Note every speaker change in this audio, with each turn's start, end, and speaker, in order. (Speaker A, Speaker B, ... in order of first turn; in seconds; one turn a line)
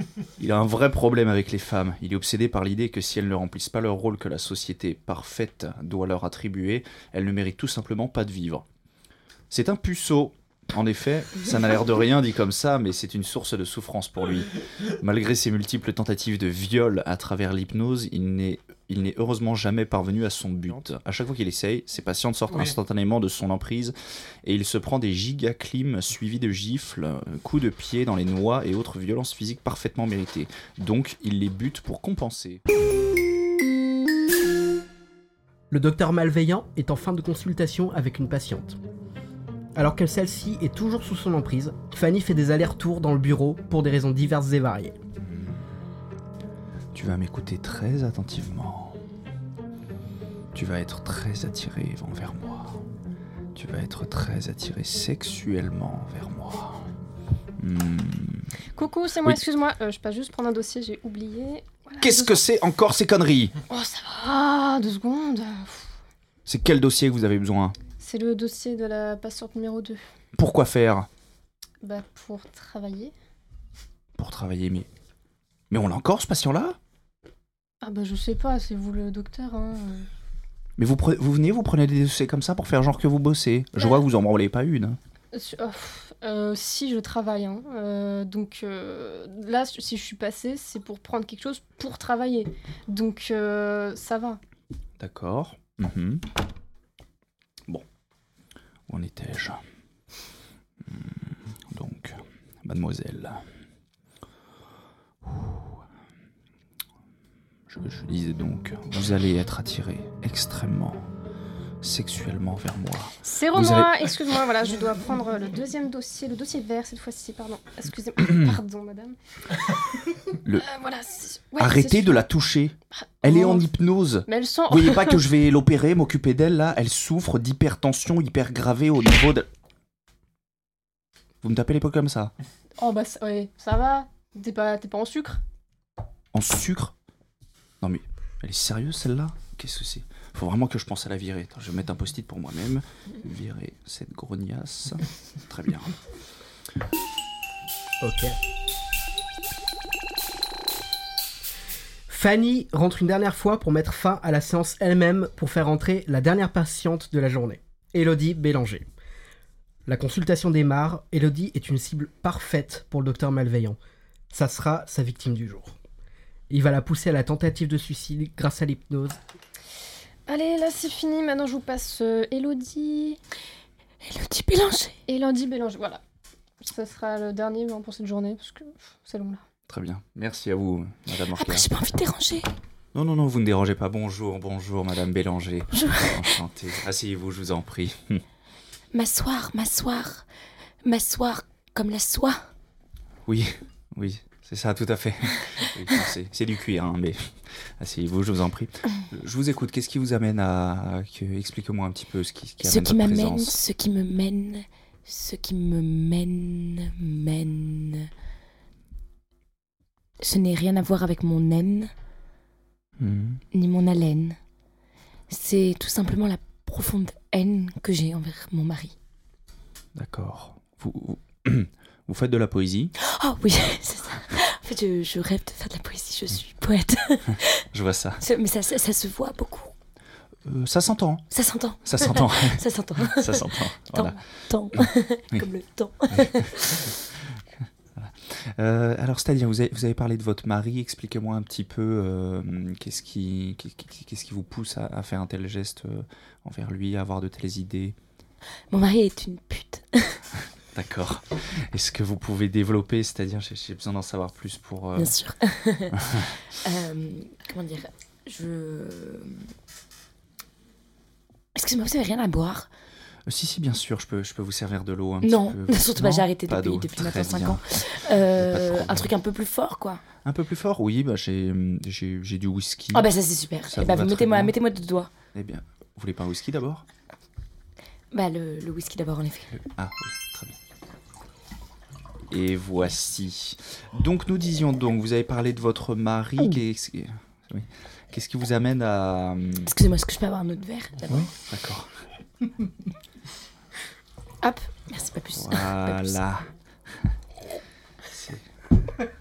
Speaker A: 0.4-8.6
Speaker A: 9.5-32.6
Speaker B: 35.7-38.8
Speaker B: 39.8-45.0
Speaker A: 45.2-45.6
Speaker A: 46.9-49.0
Speaker A: 50.5-52.8
Speaker A: 53.5-56.9
Speaker A: 57.6-58.5
Speaker C: 58.7-62.4
Speaker A: 62.0-63.5
Speaker C: 63.7-65.9
Speaker A: 66.5-67.8
Speaker C: 68.0-70.0
Speaker A: 70.3-71.1
Speaker C: 71.8-73.1
Speaker A: 74.2-74.9
Speaker A: 75.7-76.8
Speaker C: 77.8-80.1
Speaker A: 80.8-85.0
Speaker C: 85.3-94.4
Speaker A: 95.0-96.2
Speaker A: 98.9-99.6
Speaker A: 100.8-103.4
Speaker A: 105.2-105.7
Speaker A: 107.7-111.0
Speaker A: 111.8-114.1
Speaker C: 113.2-119.2
Speaker A: 118.2-118.6
Speaker C: 120.3-122.2
Speaker A: 121.6-129.5
Speaker C: 122.9-123.7
Speaker C: 124.3-125.3
Speaker A: 131.4-132.3
Speaker C: 132.8-135.4
Speaker A: 136.3-136.9
Speaker A: 137.8-145.9
Speaker B: 148.0-148.4
Speaker B: 152.1-158.9
Speaker B: 159.9-163.8
Speaker B: 164.3-165.8
Speaker B: 166.5-169.2
Speaker C: 170.3-173.2
Speaker D: 174.0-175.0
Speaker C: 175.1-176.0
Speaker C: 176.6-179.4
Speaker A: 179.7-181.7
Speaker D: 181.3-182.5
Speaker A: 182.9-188.2
Speaker D: 185.7-186.3
Speaker D: 188.9-190.2
Speaker D: 190.8-192.4
Speaker A: 193.2-203.6
Speaker D: 202.6-208.1
Speaker D: 210.2-211.9
Speaker A: 213.0-213.4
Speaker D: 213.5-214.4
Speaker D: 215.3-218.9
Speaker A: 219.9-222.9
Speaker D: 223.0-227.6
Speaker A: 227.7-228.2
Speaker D: 228.2-229.7
Speaker A: 230.4-231.2
Speaker D: 231.3-236.9
Speaker A: 231.8-234.2
Speaker A: 234.7-235.4
Speaker A: 236.1-237.3
Speaker A: 238.0-247.9
Speaker D: 248.7-250.2
Speaker A: 250.7-255.1
Speaker D: 255.0-256.0
Speaker A: 255.9-256.3
Speaker D: 256.6-259.4
Speaker D: 261.5-262.7
Speaker A: 263.3-267.6
Speaker D: 265.2-270.0
Speaker A: 268.1-269.1
Speaker A: 270.2-273.1
Speaker D: 272.9-275.1
Speaker A: 273.7-274.5
Speaker A: 275.3-276.9
Speaker D: 278.1-279.5
Speaker A: 279.6-280.6
Speaker A: 282.3-289.7
Speaker D: 289.6-291.3
Speaker A: 291.1-291.9
Speaker D: 294.4-296.2
Speaker A: 295.3-296.4
Speaker A: 298.1-298.4